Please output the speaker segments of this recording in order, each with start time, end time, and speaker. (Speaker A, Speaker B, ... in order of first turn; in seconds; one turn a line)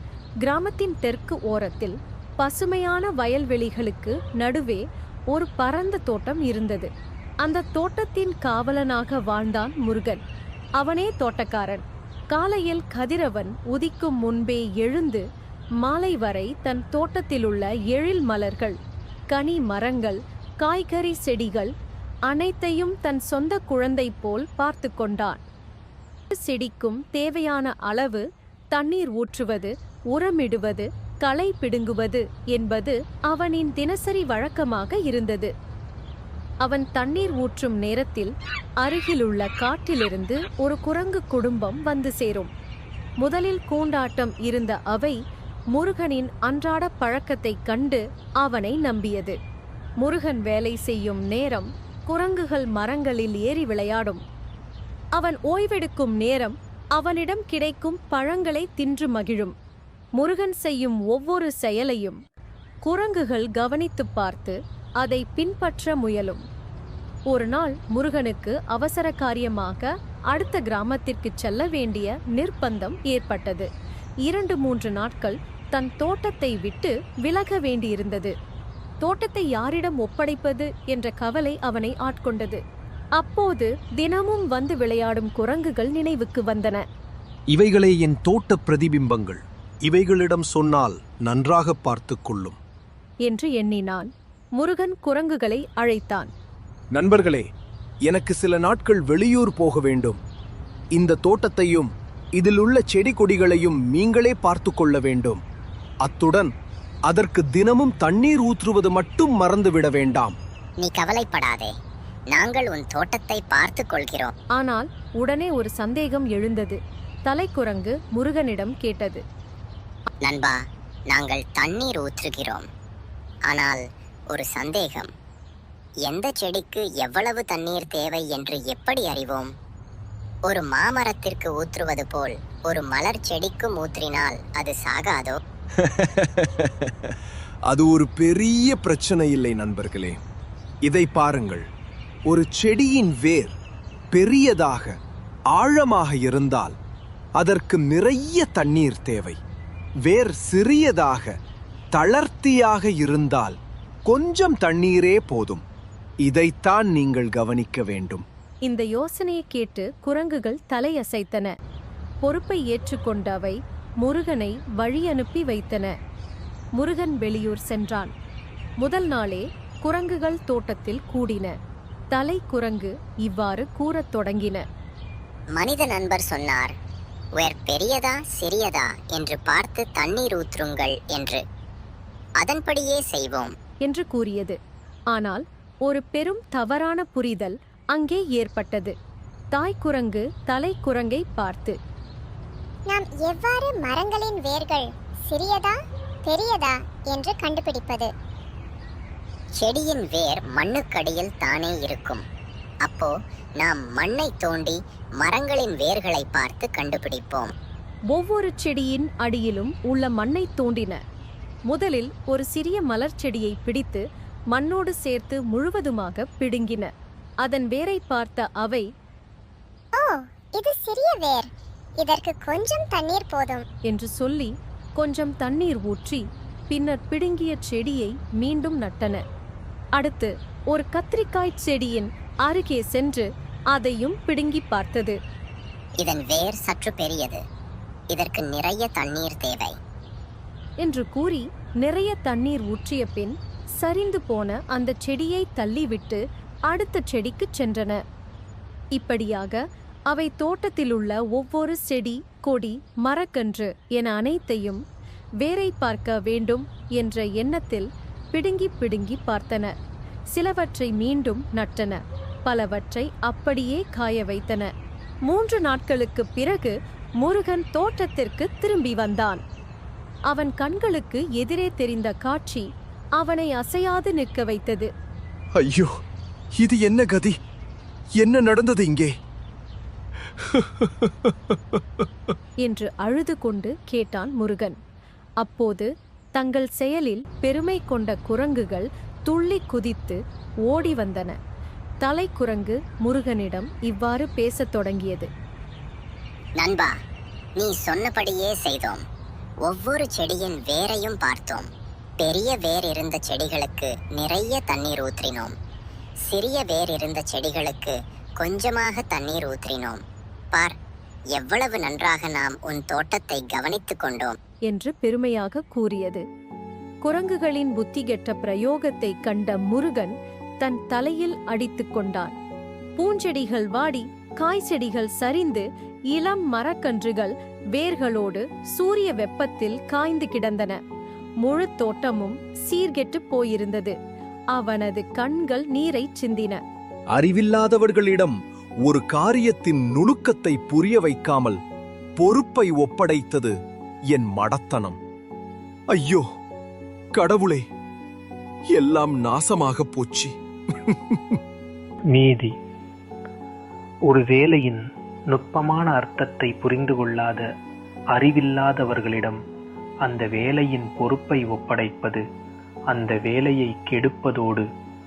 Speaker A: 0.4-6.9
Speaker A: 7.4-10.2
Speaker A: 10.8-15.2
Speaker A: 15.8-18.8
Speaker A: 19.3-21.7
Speaker A: 22.3-25.4
Speaker A: 26.3-35.5
Speaker A: 36.6-42.5
Speaker A: 43.2-45.2
Speaker A: 45.7-49.4
Speaker A: 50.0-54.2
Speaker A: 55.2-59.5
Speaker A: 60.2-62.2
Speaker A: 62.9-66.4
Speaker A: 67.3-73.7
Speaker A: 74.2-78.3
Speaker A: 79.0-82.6
Speaker A: 83.2-86.8
Speaker B: 87.5-92.6
Speaker A: 93.3-96.3
Speaker B: 96.9-97.5
Speaker B: 98.1-100.2
Speaker B: 101.0-105.4
Speaker B: 106.0-106.5
Speaker B: 107.1-110.4
Speaker C: 110.8-111.7
Speaker C: 112.3-114.3
Speaker A: 114.6-119.2
Speaker C: 120.2-120.5
Speaker C: 121.1-122.7
Speaker C: 123.5-123.8
Speaker C: 124.3-125.1
Speaker C: 126.1-129.5
Speaker C: 130.5-135.4
Speaker B: 135.8-137.1
Speaker B: 137.7-140.2
Speaker B: 140.9-141.7
Speaker B: 142.3-143.6
Speaker B: 144.1-144.9
Speaker B: 145.5-146.8
Speaker B: 147.4-149.4
Speaker B: 150.1-151.3
Speaker B: 151.9-155.6
Speaker B: 156.2-158.2
Speaker A: 158.7-161.5
Speaker A: 162.2-165.9
Speaker A: 166.8-168.1
Speaker A: 168.8-171.5
Speaker A: 172.1-174.6
Speaker C: 175.6-176.7
Speaker C: 177.4-181.4
Speaker C: 182.4-183.5
Speaker A: 183.8-184.6
Speaker A: 185.1-188.9
Speaker A: 189.5-191.8
Speaker D: 192.9-198.1
Speaker C: 199.6-202.2
Speaker C: 202.9-207.5
Speaker A: 208.1-211.0
Speaker A: 211.7-216.9
Speaker A: 217.4-218.9
Speaker D: 219.9-223.7
Speaker A: 223.9-229.2
Speaker A: 230.0-235.2
Speaker C: 236.0-237.4
Speaker C: 238.1-239.8
Speaker A: 240.8-248.0
Speaker A: 248.9-254.8
Speaker A: 255.4-259.7
Speaker A: 260.3-264.7
Speaker A: 265.3-269.4
Speaker A: 270.3-272.7
Speaker A: 273.2-274.9
Speaker B: 275.6-275.9
Speaker B: 276.6-277.4
Speaker B: 278.2-279.1
Speaker B: 280.4-282.1
Speaker A: 282.6-284.8
Speaker A: 285.4-291.4
Speaker A: 292.0-295.3
Speaker C: 296.6-296.9
Speaker C: 297.6-299.0
Speaker C: 299.7-301.7
Speaker C: 302.2-305.5
Speaker C: 306.3-310.0
Speaker C: 311.4-314.4
Speaker A: 314.7-316.2
Speaker A: 317.1-322.4
Speaker A: 323.0-330.8
Speaker A: 331.4-334.0
Speaker A: 334.5-336.6
Speaker B: 337.1-338.4
Speaker B: 338.9-341.6
Speaker B: 342.2-343.5
Speaker B: 344.1-345.0
Speaker B: 345.9-346.3
Speaker B: 347.1-347.7
Speaker B: 348.8-350.3
Speaker B: 350.9-351.4
Speaker E: 352.1-352.5
Speaker E: 354.1-357.5
Speaker E: 358.1-359.4
Speaker E: 360.0-362.2
Speaker E: 362.9-364.7